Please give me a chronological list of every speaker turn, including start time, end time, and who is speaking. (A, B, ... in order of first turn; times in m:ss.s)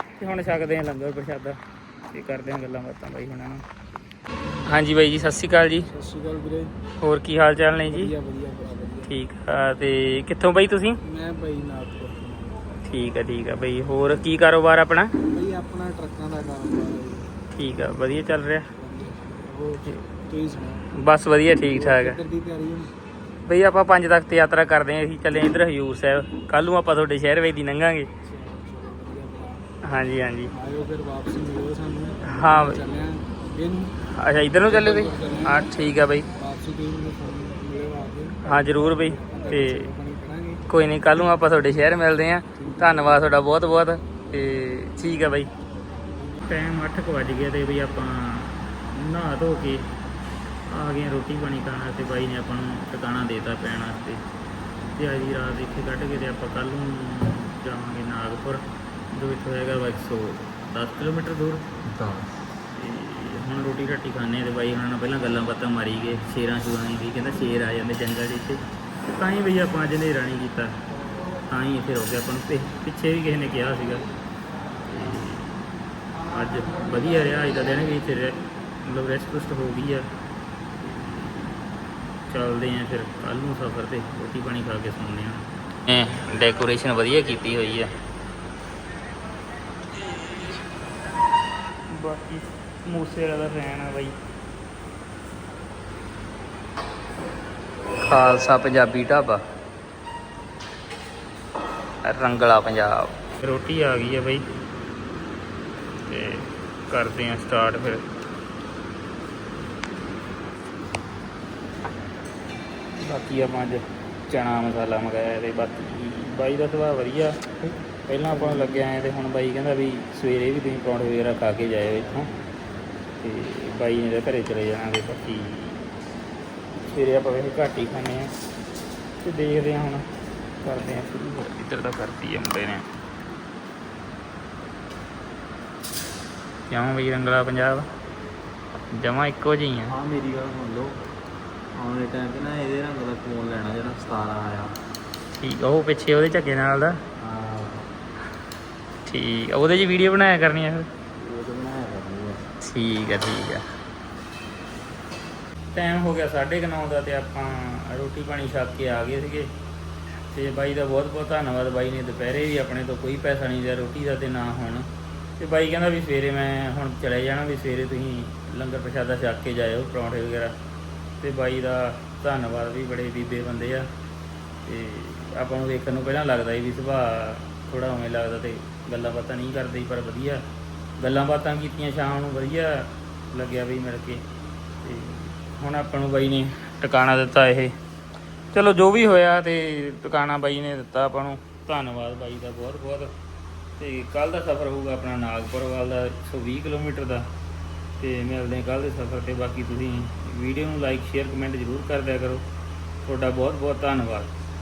0:00.2-0:03.6 A
0:04.6-0:05.9 A
0:05.9-0:06.7 B
0:07.0-0:08.2 A
0:07.9-0:09.1 B
0:09.0-0:11.0 A
0:11.0-0:12.6 B
0:12.8-0:15.2 A
0:15.3-0:17.3 B
0:17.5-0:18.7 A
0:18.8-0:20.9 B
0:21.0-0:22.2 A
0:21.7-0:22.9 B
0:23.4-0:28.1 A
0:28.2-0:29.6 B
0:29.8-0:30.5 A
0:30.5-0:34.0 B
0:32.2-0:32.8 A
0:34.1-0:36.3 A
0:34.6-0:35.8 B
0:36.4-0:40.6 B
0:38.4-0:39.9 A
0:40.7-0:45.5 A
0:42.6-0:43.2 B
0:46.4-0:49.9 A
0:50.7-0:54.2 A
0:55.0-1:01.7 A
1:01.9-1:02.3 C
1:02.7-1:10.8 A
1:11.4-1:14.1 A
1:14.8-1:15.6 A
1:16.3-1:20.1 A
1:20.8-1:21.7 A
1:22.3-1:27.9 A
1:31.9-1:34.2 A
1:38.0-1:39.4 A
1:42.0-1:44.4 A
1:46.1-1:48.0 A
1:52.9-1:57.5 A
1:58.1-2:02.3 A
2:03.2-2:05.8 A
2:06.8-2:08.3 A
2:09.2-2:10.1 A
2:10.6-2:12.9 A
2:16.7-2:17.9 A
2:18.9-2:20.0 A
2:19.9-2:21.0 C
2:21.7-2:24.8 C
2:25.3-2:27.0 A
2:27.2-2:27.8 C
2:29.0-2:30.9 A
2:31.2-2:32.4 C
2:32.6-2:33.6 A
2:35.7-2:39.5 A
2:40.3-2:44.9 A
2:45.4-2:50.6 A
2:51.2-2:53.9 A
2:54.6-3:00.4 A
3:01.0-3:04.2 A
3:04.8-3:07.8 A
3:08.5-3:13.1 A
3:13.8-3:17.3 A
3:18.0-3:22.4 A
3:23.0-3:24.3 A